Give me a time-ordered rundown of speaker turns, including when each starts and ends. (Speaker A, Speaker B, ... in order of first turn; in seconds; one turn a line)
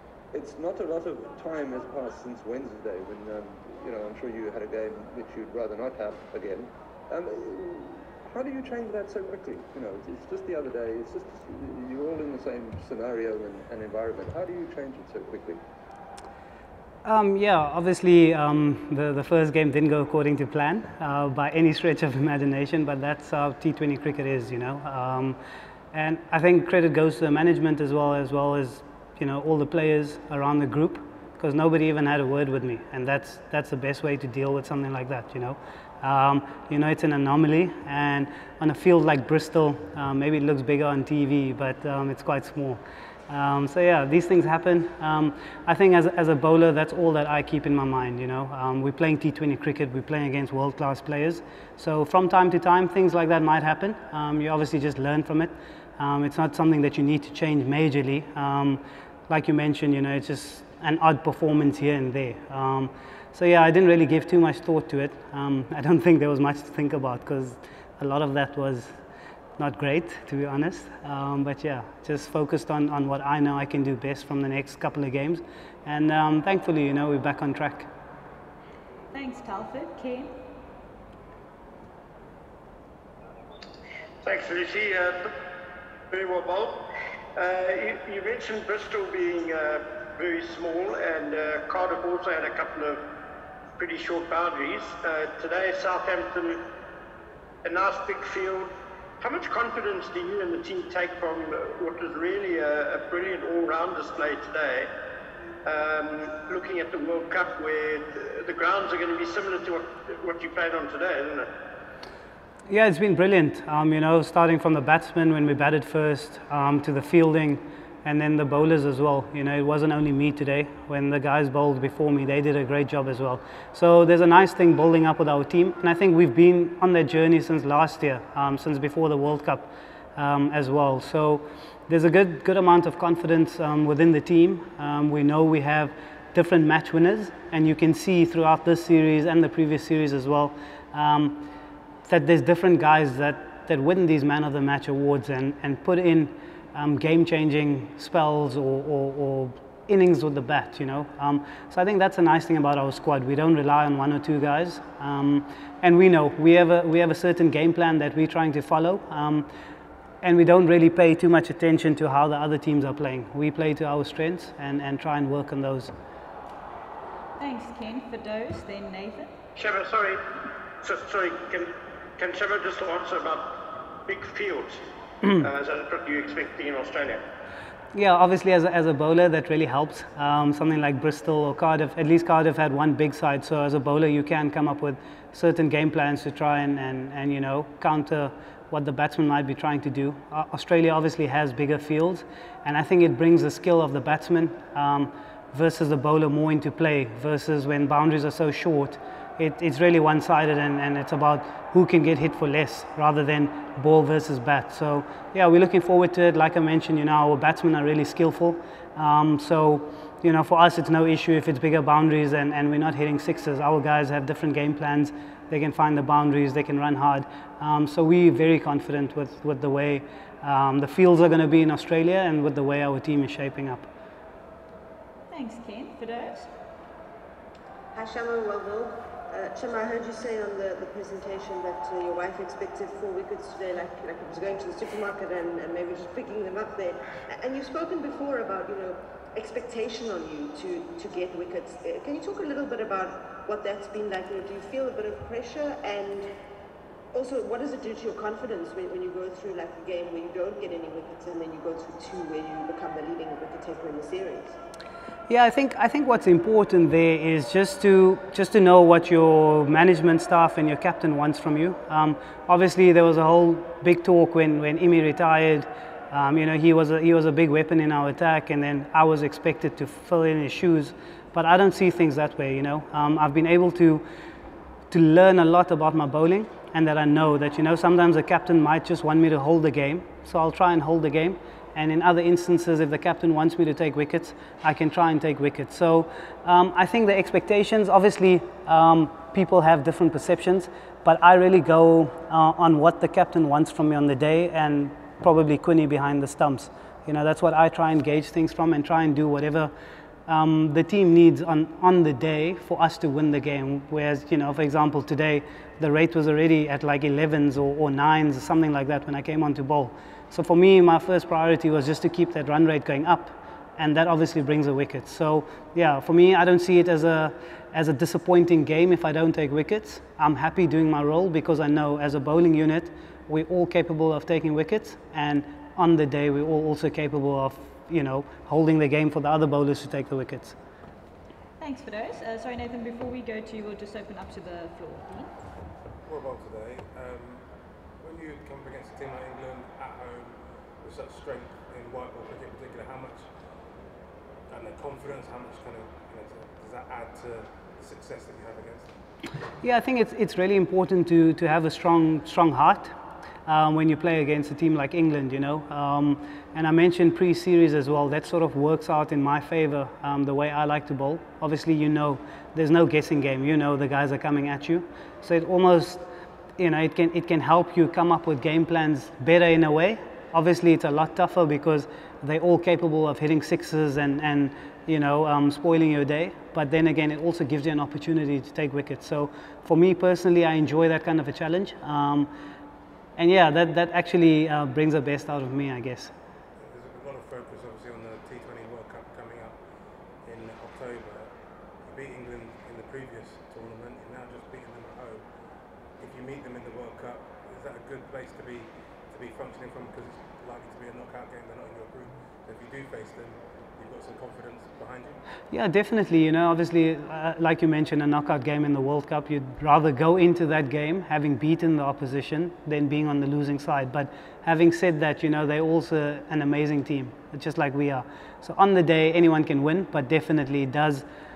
Speaker A: 0.3-15.6
Speaker B: 17.0-25.4
Speaker B: 25.9-68.9
Speaker B: 69.6-77.9
Speaker C: 79.1-80.3
Speaker D: 84.2-85.3
Speaker D: 86.1-86.8
Speaker D: 87.3-93.0
Speaker D: 93.8-96.6
Speaker D: 97.6-104.9
Speaker D: 105.6-111.5
Speaker B: 112.7-141.4
Speaker B: 142.1-159.5
Speaker B: 160.2-165.9
Speaker C: 167.4-169.3
Speaker D: 169.5-170.2
Speaker D: 170.8-174.8
Speaker D: 175.3-177.2
Speaker B: 177.9-223.9
Speaker C: 225.3-226.5
Speaker E: 227.9-246.3
Speaker E: 247.1-254.6
Speaker B: 255.3-274.0
Speaker B: 274.9-299.7
Speaker B: 300.3-330.6
Speaker C: 331.6-335.3
Speaker F: 336.1-337.5
Speaker F: 338.0-343.3
Speaker F: 344.5-348.9
Speaker B: 349.6-352.9
Speaker B: 353.4-366.0
Speaker B: 366.6-382.3
Speaker B: 383.2-386.1
Speaker F: 386.6-389.6
Speaker F: 390.2-395.3
Speaker F: 395.9-405.2
Speaker B: 405.5-421.0